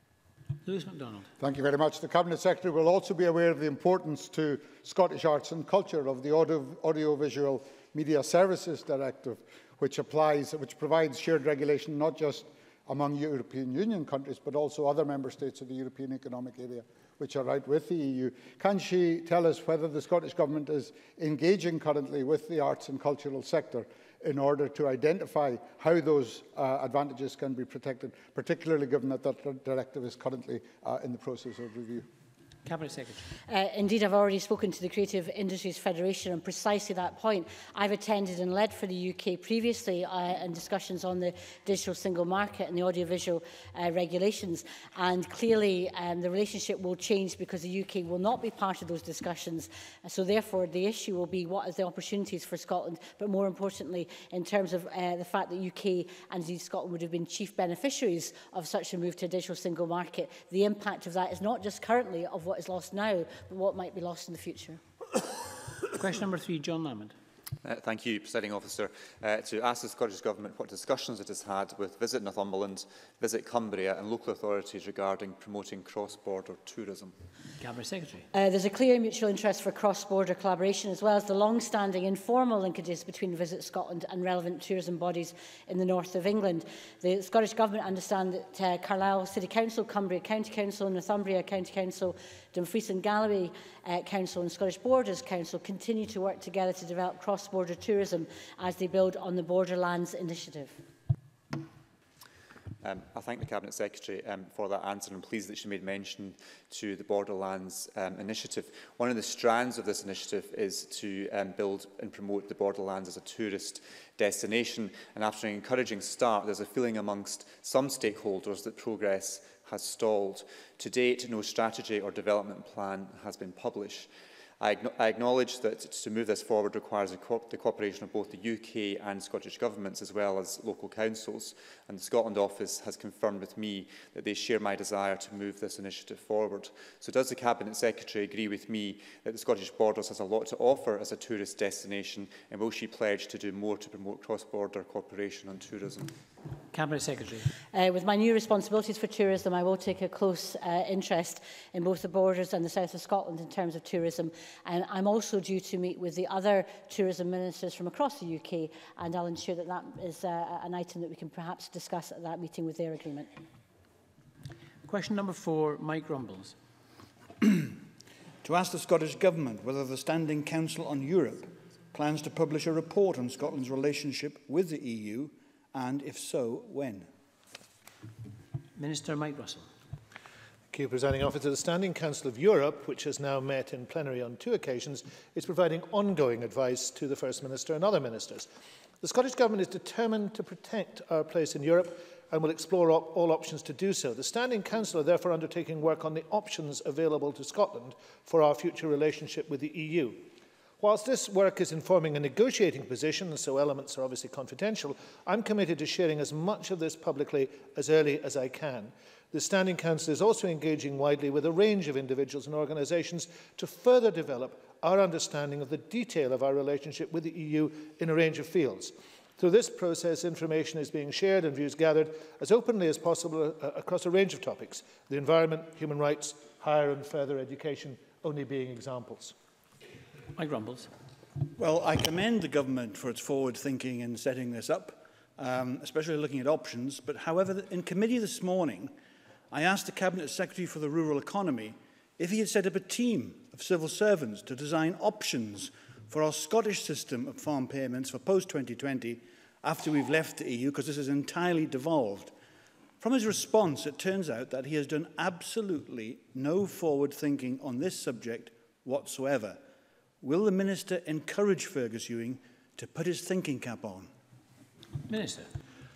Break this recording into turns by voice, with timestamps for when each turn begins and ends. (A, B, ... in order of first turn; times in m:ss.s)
0:00.6-0:01.3 A
0:01.4-0:32.0 B
0:32.6-0:33.2 A
0:33.5-1:04.8 C
1:06.0-1:07.1 A
1:07.6-1:17.1 D
1:17.6-1:18.2 A
1:18.3-1:40.8 C
1:42.8-2:04.1 D
2:04.6-2:26.1 D
2:26.7-2:27.4 A
2:27.7-2:43.3 C
2:44.8-2:46.5 A
2:48.4-2:57.1 E
2:58.8-2:59.7 A
3:00.7-3:08.5 F
3:09.0-3:20.3 F
3:20.8-3:49.3 F
3:50.3-3:50.9 A
3:51.6-3:58.9 E
3:59.5-4:12.3 E
4:13.0-4:19.6 E
4:20.2-4:24.1 E
4:25.0-4:25.5 A